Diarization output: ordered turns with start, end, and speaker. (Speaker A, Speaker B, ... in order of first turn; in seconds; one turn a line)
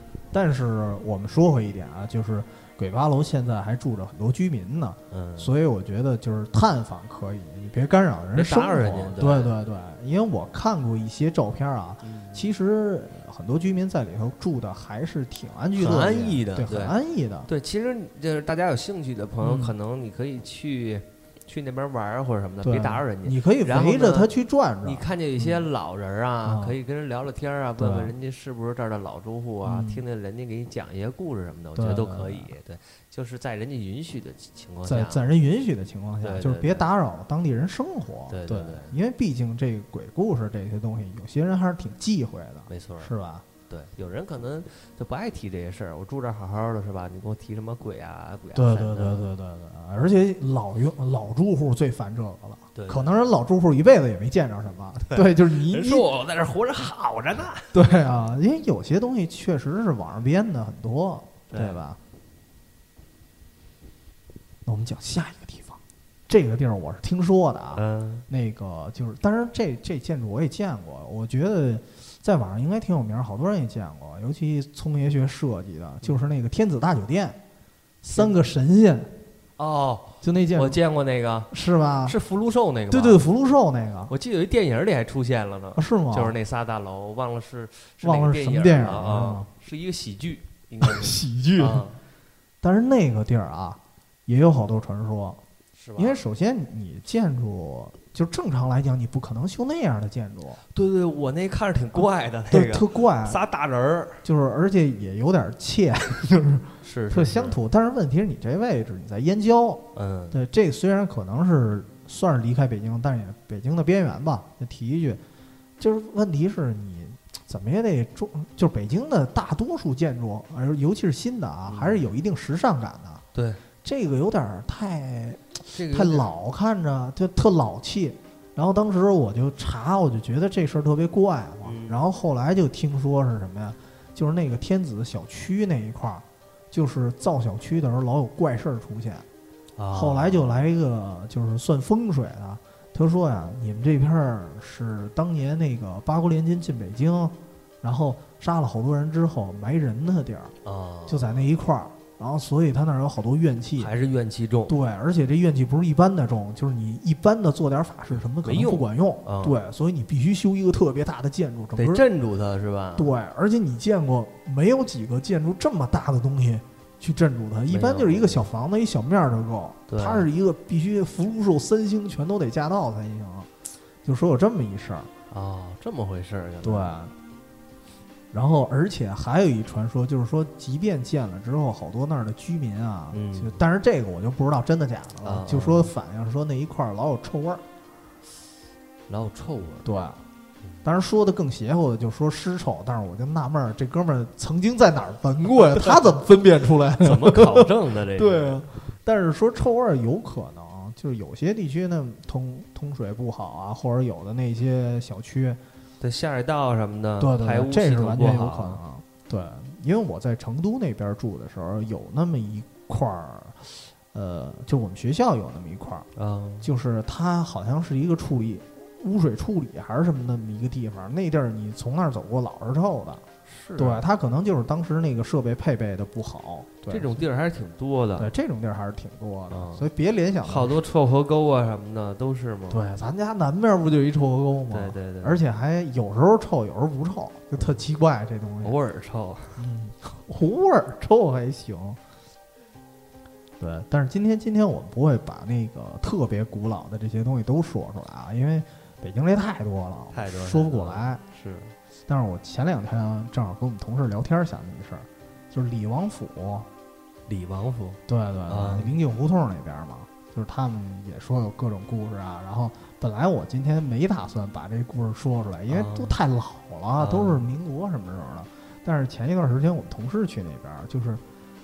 Speaker A: 0.3-17.5
Speaker B: 5.1-5.5
Speaker B: 8.3-9.5
Speaker B: 12.0-12.5
Speaker B: 15.8-24.3
Speaker A: 19.4-19.7
Speaker A: 22.6-25.6
Speaker B: 24.8-35.2
Speaker A: 26.4-26.8
Speaker A: 27.8-28.1
Speaker A: 29.6-30.0
Speaker A: 31.8-32.5
Speaker A: 34.8-43.4
Speaker B: 36.2-36.9
Speaker B: 38.3-38.9
Speaker B: 42.7-43.1
Speaker B: 43.7-49.3
Speaker A: 48.5-56.1
Speaker B: 52.7-53.1
Speaker B: 55.1-57.8
Speaker A: 57.7-62.0
Speaker B: 61.5-61.8
Speaker A: 64.6-77.4
Speaker B: 67.7-68.3
Speaker A: 78.0-79.1
Speaker B: 79.6-81.5
Speaker A: 80.2-80.8
Speaker A: 81.5-82.2
Speaker B: 82.0-83.2
Speaker A: 82.9-84.1
Speaker B: 84.1-92.0
Speaker A: 85.7-86.3
Speaker A: 88.0-89.5
Speaker A: 90.8-91.8
Speaker A: 92.6-95.4
Speaker B: 95.8-96.2
Speaker A: 96.0-100.6
Speaker B: 100.7-104.2
Speaker A: 102.5-103.4
Speaker A: 104.2-115.2
Speaker B: 106.8-107.6
Speaker B: 109.9-110.4
Speaker A: 115.8-123.2
Speaker B: 121.7-122.0
Speaker B: 123.3-123.6
Speaker A: 123.8-139.2
Speaker B: 125.7-126.3
Speaker B: 131.6-132.0
Speaker B: 139.8-140.6
Speaker A: 139.9-150.5
Speaker B: 150.6-151.5
Speaker A: 151.1-153.9
Speaker B: 153.8-154.7
Speaker A: 154.7-162.0
Speaker B: 158.1-159.6
Speaker B: 161.8-163.1
Speaker A: 163.0-173.5
Speaker B: 167.7-168.5
Speaker B: 169.9-170.3
Speaker A: 174.0-175.1
Speaker B: 175.3-176.9
Speaker A: 176.6-177.1
Speaker A: 178.3-187.6
Speaker B: 183.1-183.6
Speaker B: 185.2-185.9
Speaker B: 189.1-189.9
Speaker A: 189.8-190.2
Speaker A: 190.8-205.6
Speaker B: 197.0-198.6
Speaker B: 206.0-208.8
Speaker A: 207.2-216.1
Speaker B: 216.2-216.7
Speaker A: 216.6-223.2
Speaker B: 223.5-224.0
Speaker A: 223.8-227.2
Speaker B: 226.9-228.3
Speaker A: 228.2-230.8
Speaker B: 229.5-229.9
Speaker B: 230.4-232.8
Speaker A: 232.7-238.8
Speaker B: 234.7-235.4
Speaker B: 238.6-239.6
Speaker A: 239.6-242.0
Speaker A: 243.6-251.2
Speaker B: 250.1-251.7
Speaker A: 252.1-256.7
Speaker B: 257.3-259.0
Speaker A: 258.1-271.2
Speaker B: 265.7-266.1
Speaker B: 267.0-267.5